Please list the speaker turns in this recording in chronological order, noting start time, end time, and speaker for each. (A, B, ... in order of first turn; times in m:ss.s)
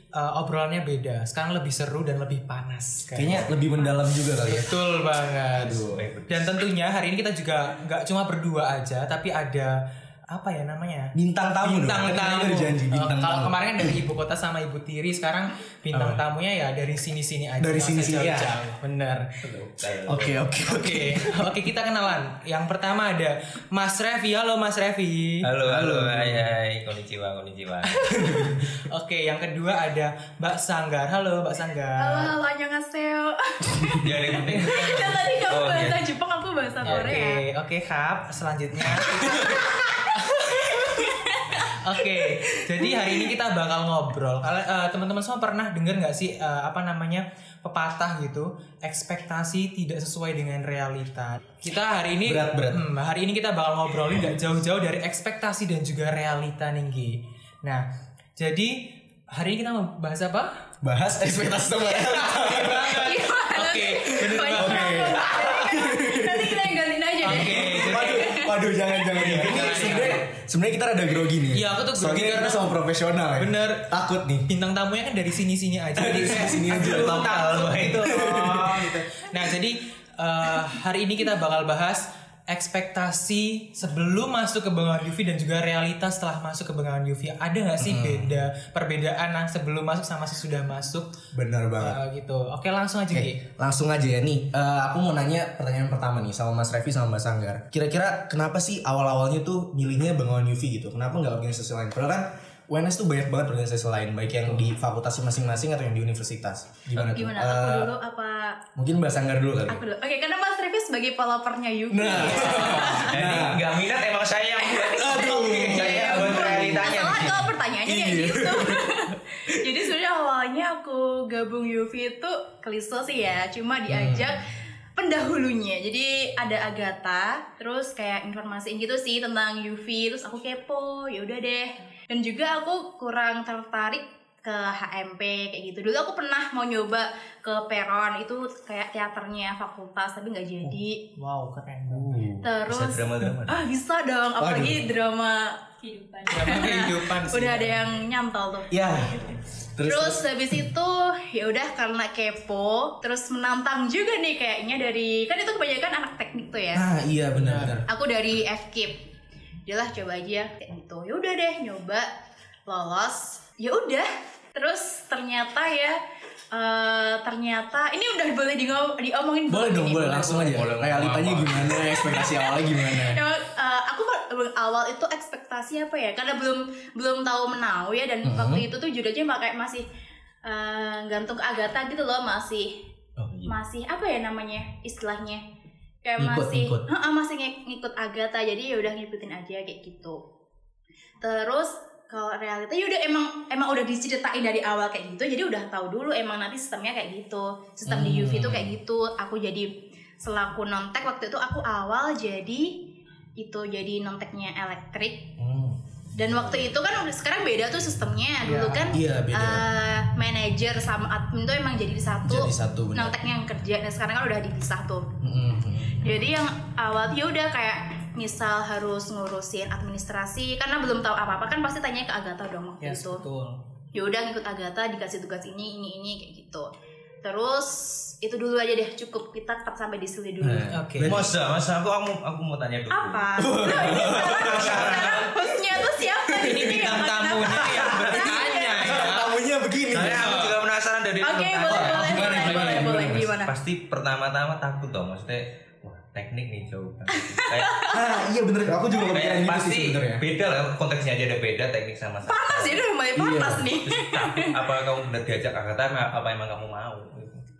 0:00.1-0:03.5 A
0:03.2-0:04.7 B
0:04.4-0:09.7 A
0:05.6-0:06.0 B
0:05.9-0:06.6 C
0:10.3-0:19.2 A
0:11.1-0:14.0 B
0:15.9-0:16.2 B
0:17.6-0:18.5 B
0:19.4-0:20.4 C
0:20.1-0:21.5 B
0:20.6-0:26.4 A
0:25.4-0:28.1 C
0:27.8-0:32.3 A
0:28.2-0:28.6 B
0:32.0-0:37.4 D
0:34.0-0:34.8 C
0:34.3-0:35.2 A
0:35.4-0:36.0 C
0:36.8-0:39.6 A
0:36.8-0:37.2 C
0:39.1-0:41.7 D
0:40.2-0:40.9 A
0:41.6-0:57.8 A
0:52.2-0:52.9 B
0:58.4-1:00.5 A
1:00.8-1:03.1 B
1:01.8-1:05.1 A
1:02.9-1:09.4 D
1:04.5-1:06.7 B
1:07.2-1:08.2 A
1:07.2-1:14.5 B
1:09.2-1:10.2 A
1:11.5-1:12.7 A
1:13.4-1:13.9 A
1:14.5-1:31.1 A
1:16.0-1:19.1 B
1:16.5-1:18.1 C
1:27.8-1:28.3 B
1:31.3-1:32.0 B
1:31.8-1:33.4 A
1:33.1-1:47.9 B
1:46.9-1:48.6 D
1:48.8-1:49.8 B
1:49.7-1:53.2 D
1:51.9-1:53.6 B
1:52.1-1:57.5 C
1:52.4-1:52.9 A
1:54.6-2:21.0 D
1:55.0-1:57.1 B
1:57.8-1:59.8 B
2:03.9-2:04.4 B
2:21.2-2:22.1 A
2:21.9-2:22.5 B
2:22.4-2:36.9 D
2:22.6-2:23.6 C
2:24.4-2:24.8 B
2:26.3-2:27.8 A
2:28.7-2:29.2 B
2:29.7-2:30.2 B
2:36.7-2:37.8 B
2:37.3-2:37.8 A
2:37.8-2:39.0 D
2:39.6-2:42.1 D
2:42.6-2:46.0 D
2:46.5-2:50.4 D
2:49.5-2:53.2 B
2:50.2-2:52.3 C
2:51.8-2:59.8 D
2:58.2-2:58.6 B
3:00.4-3:02.7 D
3:03.2-3:03.5 C
3:03.5-3:05.4 D
3:06.0-3:10.2 D
3:06.2-3:06.9 B
3:11.2-3:22.8 D
3:17.8-3:18.7 B
3:23.4-3:25.3 D
3:25.4-3:25.8 B
3:26.2-3:35.1 D
3:28.4-3:28.9 A
3:28.9-3:29.7 B
3:32.2-3:33.2 B
3:35.2-3:36.1 B
3:36.0-3:43.2 D
3:42.8-3:43.6 A
3:43.9-3:46.7 D
3:47.2-3:50.7 D
3:50.4-3:51.3 B
3:50.7-3:51.2 A
3:51.0-3:55.3 C
3:52.9-3:59.1 D
3:53.4-3:55.3 B
3:54.7-3:55.1 A
3:56.2-3:56.8 B
3:56.4-3:59.3 A
3:57.4-3:58.2 B
3:57.8-3:58.4 C
3:58.7-4:00.3 B
3:59.9-4:07.9 C
4:00.0-4:00.6 A
4:01.2-4:03.5 D
4:01.7-4:03.3 B
4:07.1-4:08.0 D
4:07.9-4:10.2 B
4:09.0-4:12.9 C
4:12.2-4:14.6 D
4:13.1-4:13.7 B
4:13.8-4:17.4 C